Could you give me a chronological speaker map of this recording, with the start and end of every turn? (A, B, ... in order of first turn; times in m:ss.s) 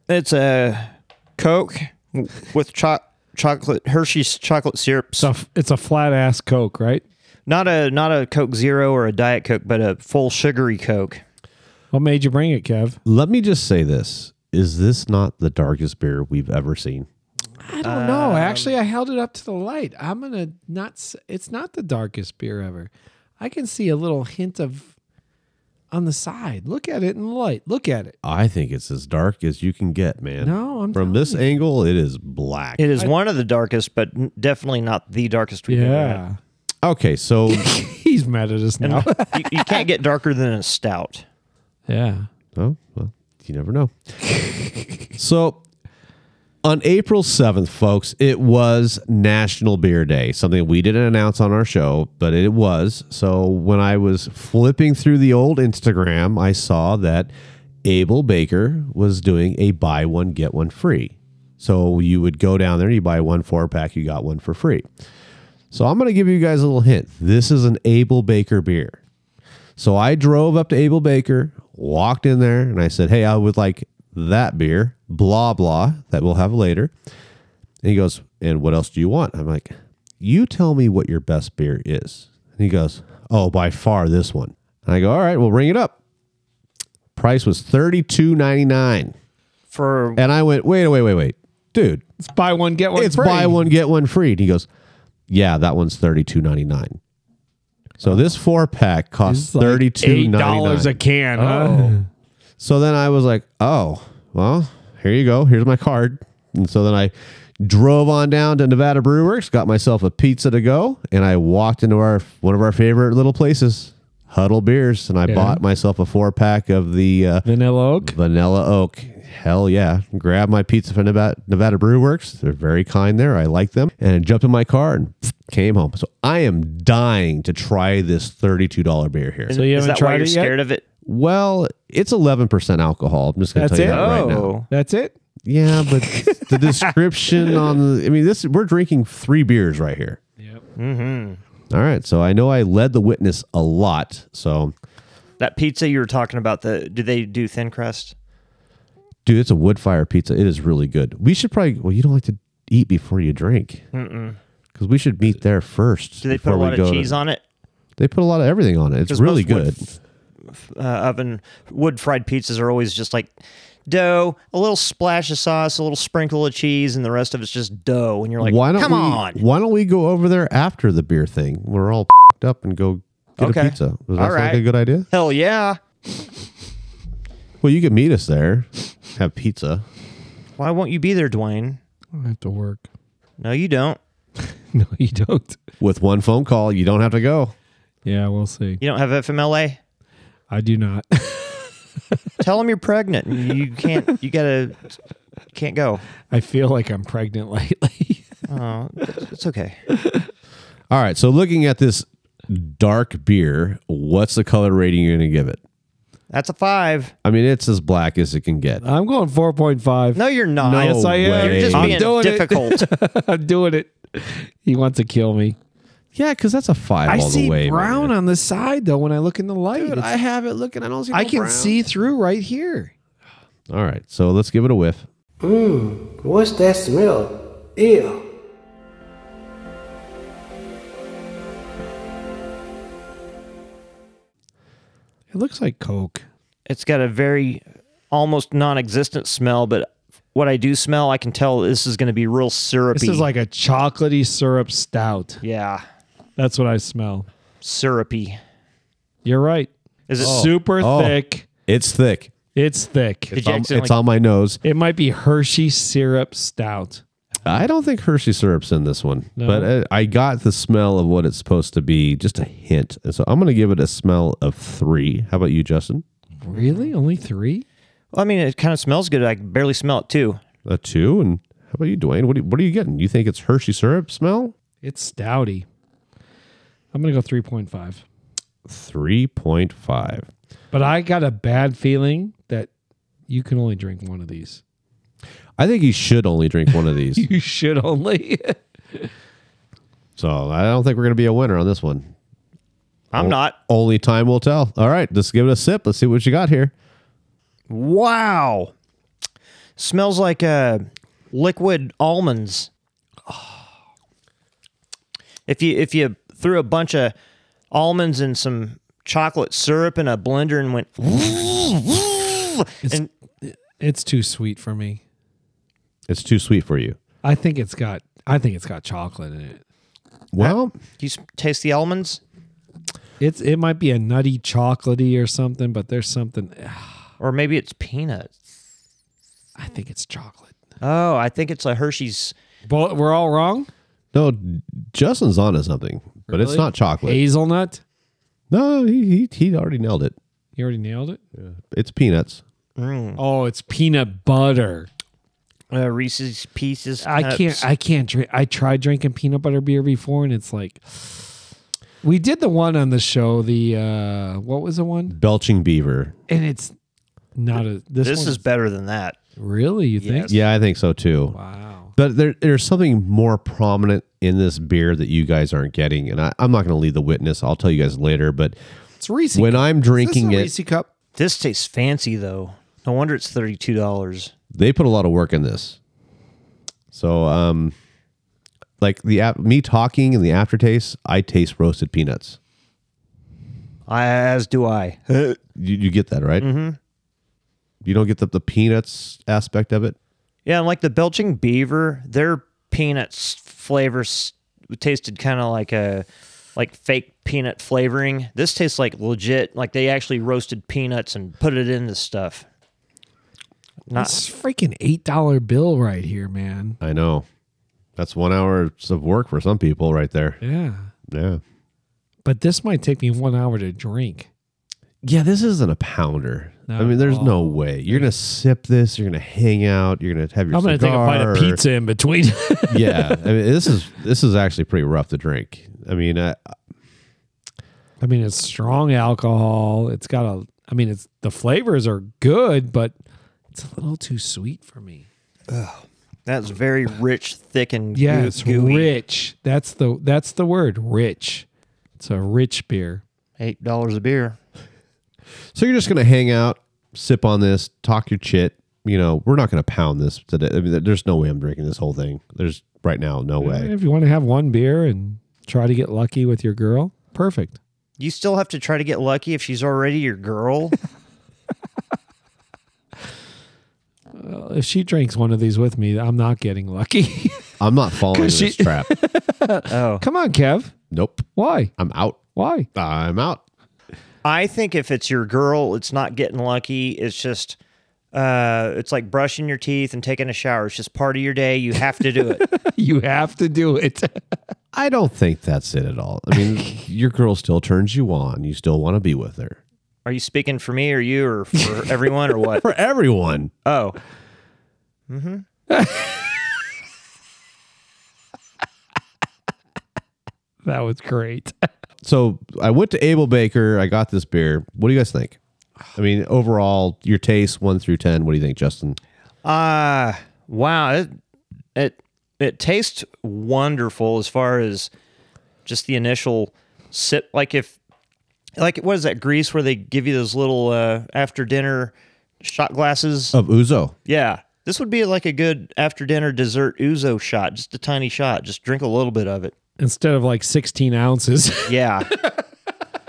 0:00.1-0:05.3 A
0:05.2-0:07.0 B
0:07.5-0:11.2 A
0:11.9-0:13.0 B
0:13.0-0:17.1 C
0:17.6-0:24.9 B
0:17.8-0:18.7 A
0:25.9-0:28.1 B
0:28.2-0:32.8 C
0:30.4-0:31.5 B
0:32.8-0:36.2 A
0:35.7-0:36.4 B
0:36.8-0:37.7 C
0:37.5-0:39.8 B
0:38.8-0:41.2 A
0:41.9-0:42.3 B
0:42.6-0:43.9 C
0:45.2-0:45.6 C
0:46.6-0:57.3 C
0:57.8-1:04.9 C
1:05.7-1:09.0 C
1:09.8-1:16.9 C
1:17.8-1:26.0 C
1:27.1-1:29.1 C
1:29.7-1:30.2 A
1:30.2-1:32.0 C
1:32.2-1:33.7 B
1:32.9-1:34.7 C
1:35.3-1:37.0 C
1:38.0-1:41.0 C
1:39.2-1:42.0 B
1:41.4-1:42.0 A
1:42.6-1:57.4 C
1:55.3-1:55.6 B
1:57.4-1:58.2 B
1:58.0-2:09.6 C
2:09.5-2:10.8 A
2:09.5-2:10.5 B
2:11.0-2:14.5 C
2:13.5-2:15.1 B
2:13.9-2:14.7 A
2:15.4-2:20.2 C
2:15.8-2:16.9 B
2:20.8-2:21.4 A
2:21.7-2:24.7 C
2:25.4-2:28.1 A
2:29.2-2:33.8 C
2:33.9-2:34.4 A
2:34.7-2:37.2 C
2:36.2-2:37.4 A
2:38.0-2:39.9 C
2:39.1-2:39.8 A
2:40.5-2:43.3 A
2:43.9-2:49.4 A
2:48.4-2:55.1 C
2:53.4-2:55.8 A
2:57.6-2:59.8 C
3:00.6-3:01.8 A
3:02.1-3:02.8 B
3:03.4-3:04.0 A
3:04.4-3:05.6 B
3:05.8-3:07.5 C
3:08.0-3:08.8 B
3:08.8-3:09.8 A
3:10.5-3:11.7 B
3:12.4-3:14.9 A
3:15.5-3:16.0 A
3:16.3-3:18.3 B
3:18.5-3:19.8 A
3:20.0-3:20.2 B
3:20.9-3:25.6 C
3:26.3-3:27.1 A
3:27.2-3:28.8 C
3:28.8-3:30.2 B
3:30.1-3:32.9 A
3:30.6-3:32.1 C
3:30.7-3:35.6 B
3:36.1-3:38.1 C
3:37.1-3:40.1 B
3:39.7-3:41.8 C
3:41.1-3:42.9 B
3:43.7-3:45.1 C
3:45.4-3:48.2 D
3:55.3-3:56.2 B
3:56.7-4:03.3 A
4:02.9-4:05.4 B
4:05.4-4:05.8 A
4:06.4-4:07.3 B
4:07.6-4:08.4 A
4:09.2-4:11.4 B
4:10.1-4:10.5 A
4:10.2-4:12.3 C
4:12.5-4:13.4 B
4:13.3-4:14.6 C
4:13.3-4:13.9 A
4:14.6-4:17.0 B
4:17.4-4:26.0 C
4:19.4-4:19.7 B
4:26.4-4:27.6 B
4:26.5-4:26.9 A
4:28.1-4:30.4 A
4:30.6-4:34.5 C
4:34.8-4:35.7 B
4:36.9-4:38.0 B
4:38.7-4:40.3 C
4:40.7-4:42.7 B
4:43.3-4:44.6 B
4:45.6-4:47.2 C
4:47.1-4:49.1 B
4:50.2-4:52.1 C
4:53.1-4:53.6 A
4:53.2-4:56.7 C
4:57.7-4:58.7 A
4:59.8-5:02.7 A
5:05.5-5:07.1 A
5:07.7-5:13.1 A
5:12.8-5:15.0 B
5:16.1-5:17.0 C
5:17.2-5:19.6 B
5:20.3-5:20.7 C
5:20.4-5:22.2 A
5:23.2-5:27.0 B
5:27.2-5:28.3 A
5:29.6-5:30.5 B
5:30.8-5:32.3 A
5:32.7-5:33.7 B
5:34.1-5:37.2 C
5:36.3-5:37.8 B
5:38.5-5:40.1 C
5:40.6-5:41.2 B
5:41.4-5:42.4 C
5:42.8-5:43.2 A
5:43.2-5:44.9 B
5:45.7-5:47.6 A
5:47.0-5:51.4 B
5:52.0-5:55.2 B
5:55.1-5:56.2 C
5:56.3-5:56.7 B
5:57.4-5:58.4 B
5:58.0-5:59.2 A
5:59.4-6:00.4 B
6:00.0-6:00.4 A
6:00.3-6:01.4 C
6:01.3-6:01.9 B
6:02.0-6:08.6 C
6:09.0-6:10.9 B
6:09.3-6:10.5 C
6:11.2-6:14.3 A
6:14.5-6:15.8 C
6:16.9-6:17.7 C
6:18.8-6:22.4 C
6:23.9-6:25.4 A
6:25.6-6:26.5 C
6:26.4-6:26.8 A
6:27.8-6:30.0 C
6:30.4-6:42.4 A
6:43.9-6:44.2 A
6:43.9-6:46.8 B
6:46.8-6:47.2 C
6:48.0-6:50.4 C
6:50.4-6:50.9 B
6:51.1-6:51.4 C
6:52.2-6:54.3 B
6:55.0-7:01.6 C
6:56.7-6:58.1 B
7:00.5-7:03.2 B
7:02.7-7:06.5 C
7:08.0-7:12.9 B
7:13.5-7:15.1 B
7:15.5-7:18.9 A
7:17.9-7:21.5 B
7:22.0-7:23.0 B
7:23.4-7:24.4 A
7:25.5-7:33.7 C
7:33.4-7:37.6 B
7:38.0-7:40.8 A
7:44.2-7:47.5 B
7:47.6-7:48.9 C
7:48.1-7:50.7 B
7:49.7-7:50.0 A
7:50.9-7:52.2 C
7:51.3-7:51.7 B
7:52.3-7:52.7 B
7:52.7-7:53.4 C
7:54.2-7:57.6 A
7:58.1-8:02.4 A
8:02.5-8:04.4 B
8:04.7-8:09.6 C
8:10.0-8:12.6 A
8:12.6-8:13.5 C
8:13.6-8:14.0 A
8:15.1-8:15.4 A
8:15.7-8:16.3 B
8:20.6-8:21.5 B
8:22.0-8:25.4 C
8:25.9-8:29.0 C
8:29.4-8:31.1 A
8:31.8-8:34.9 A
8:35.6-8:37.8 A
8:38.6-8:43.4 A
8:43.3-8:43.9 C
8:44.1-8:49.5 A
8:49.8-8:51.7 B
8:51.7-8:52.1 A